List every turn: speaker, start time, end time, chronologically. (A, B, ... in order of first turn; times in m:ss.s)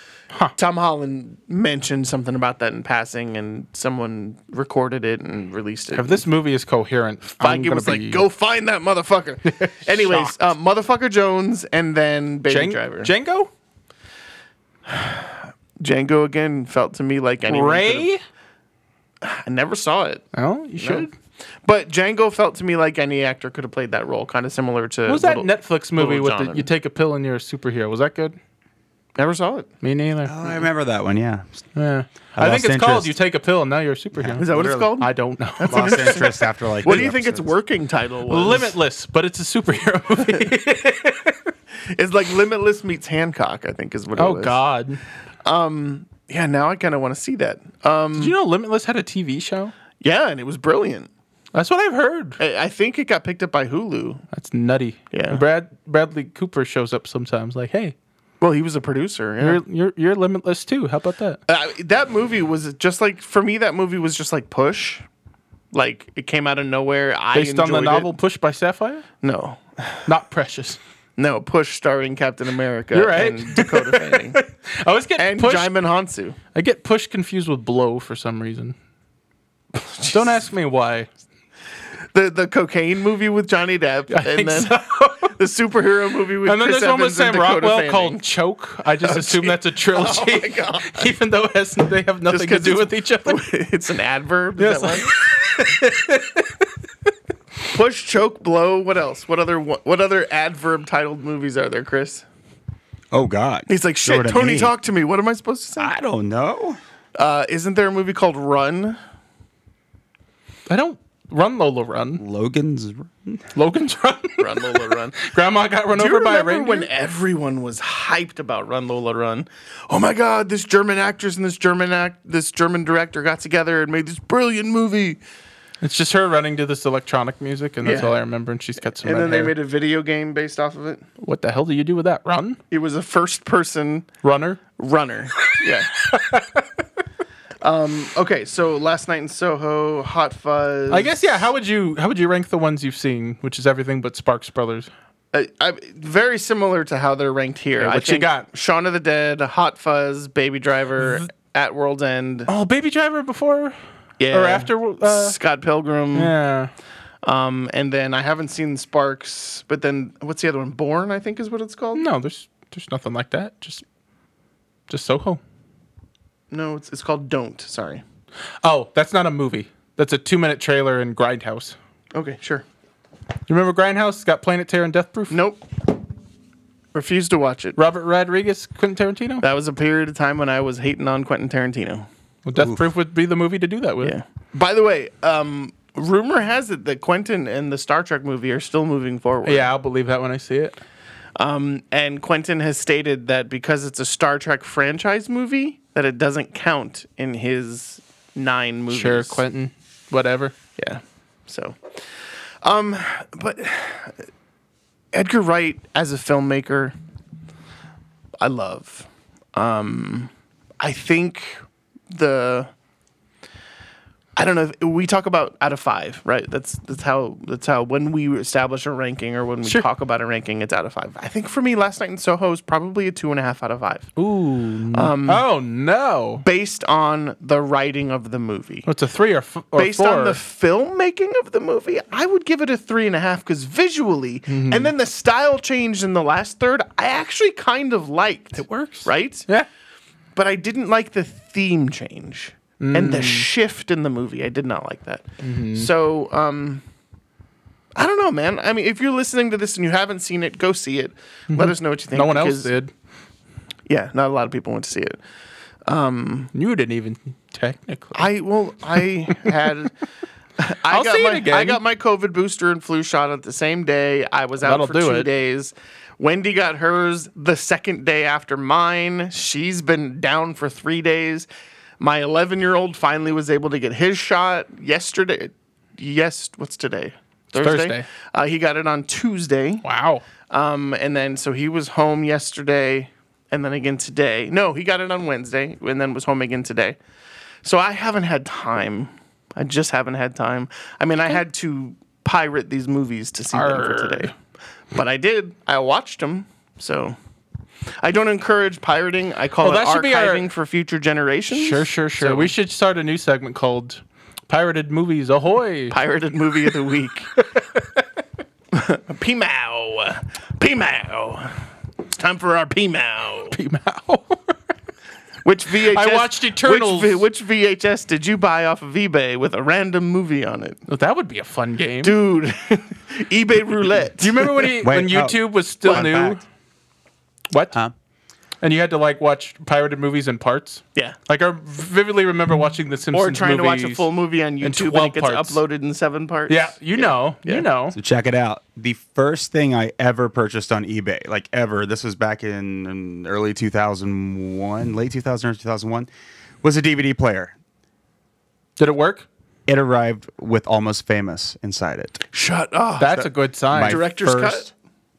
0:00.6-0:06.2 A
0:05.9-0:08.2 B
0:07.4-0:13.1 A
0:09.5-0:10.4 B
0:12.5-0:13.5 B
0:14.9-0:18.1 A
0:17.5-0:18.2 B
0:19.2-0:20.2 A
0:20.3-0:21.1 B
0:20.8-0:21.1 A
0:21.6-0:26.7 A
0:25.1-0:28.4 B
0:29.2-0:29.7 A
0:29.8-0:30.4 B
0:30.3-0:31.7 C
0:31.8-0:36.4 B
0:32.4-0:33.1 C
0:34.2-0:34.9 C
0:34.4-0:38.7 A
0:35.7-0:37.5 C
0:38.3-0:41.5 B
0:41.9-0:44.6 A
0:44.2-0:45.0 B
0:45.4-0:48.3 A
0:48.2-0:49.7 B
0:50.0-0:51.1 A
0:51.5-0:52.4 B
0:52.4-0:54.2 A
0:54.3-0:58.0 B
0:55.1-0:55.4 A
0:58.4-0:59.6 A
0:59.4-1:01.4 B
1:01.5-1:05.0 A
1:05.7-1:08.1 A
1:07.3-1:09.0 B
1:09.2-1:10.1 A
1:10.1-1:10.8 B
1:11.2-1:14.4 A
1:12.9-1:15.7 B
1:15.2-1:16.4 A
1:16.6-1:18.8 B
1:19.7-1:20.4 A
1:20.1-1:21.1 B
1:22.1-1:28.2 A
1:24.1-1:25.4 B
1:26.4-1:33.5 B
1:29.0-1:31.1 A
1:32.3-1:35.1 A
1:34.6-1:36.6 B
1:37.7-1:42.2 A
1:43.1-1:44.7 C
1:43.7-1:45.9 A
1:45.8-1:46.8 C
1:47.2-1:49.0 A
1:50.7-1:52.2 B
1:52.2-1:53.5 C
1:53.5-1:56.9 B
1:54.4-1:55.2 A
1:55.9-2:05.2 A
2:05.8-2:09.5 B
2:07.8-2:08.1 A
2:09.0-2:11.0 A
2:11.2-2:12.6 B
2:12.7-2:14.1 A
2:14.2-2:14.6 B
2:14.8-2:16.0 A
2:16.0-2:16.6 B
2:17.6-2:21.2 A
2:20.9-2:24.9 B
2:25.3-2:32.5 A
2:27.8-2:28.5 B
2:32.5-2:33.8 B
2:34.2-2:36.3 A
2:34.3-2:35.4 B
2:36.2-2:36.7 B
2:37.2-2:42.0 A
2:42.0-2:43.8 B
2:44.9-2:45.4 B
2:46.5-2:48.0 A
2:48.6-2:51.8 B
2:52.2-2:52.6 A
2:53.5-2:55.4 B
2:55.3-2:55.6 A
2:56.9-2:57.8 A
2:57.8-2:59.4 B
2:59.4-3:02.1 A
3:02.4-3:04.2 B
3:04.0-3:09.7 A
3:09.4-3:10.8 B
3:11.4-3:19.4 A
3:18.9-3:20.5 B
3:20.8-3:22.0 A
3:22.6-3:24.2 A
3:25.1-3:26.9 A
3:28.4-3:32.7 A
3:34.4-3:44.1 A
3:44.2-3:46.4 B
3:44.9-3:45.4 A
3:46.4-3:48.9 A
3:48.9-3:50.4 B
3:49.7-3:59.5 A
3:54.5-3:54.9 B
3:58.6-3:59.7 B
4:00.4-4:06.8 A
4:02.8-4:03.5 B
4:05.4-4:05.9 B
4:08.0-4:12.7 A
4:11.5-4:12.9 B
4:13.9-4:15.2 A
4:15.9-4:16.5 A
4:16.5-4:18.3 B
4:18.1-4:19.9 A
4:20.6-4:31.5 A
4:20.9-4:21.8 B
4:24.6-4:25.3 B
4:32.0-4:39.8 A
4:37.6-4:38.0 B
4:39.8-4:40.2 B
4:40.5-4:47.0 A
4:47.6-4:54.3 A
4:53.5-4:54.3 B
4:54.9-4:57.2 A
4:58.0-5:02.5 A
4:59.6-5:00.5 B
5:01.5-5:06.0 B
5:05.9-5:07.3 A
5:07.4-5:07.8 B
5:08.7-5:11.6 A
5:12.1-5:13.6 A
5:13.5-5:14.6 B
5:15.4-5:20.8 A
5:15.8-5:17.2 B
5:20.9-5:22.2 B
5:22.0-5:24.7 A
5:24.2-5:26.4 B
5:24.8-5:26.4 C
5:25.8-5:26.1 A
5:27.5-5:27.8 B
5:28.6-5:34.1 B
5:33.1-5:37.7 A
5:34.6-5:35.6 B
5:36.5-5:38.0 B
5:37.9-5:46.1 C
5:46.6-5:47.6 C
5:48.8-5:49.3 B
5:49.7-5:52.2 C
5:52.3-5:54.7 A
5:53.0-5:54.7 B
5:53.7-5:54.0 C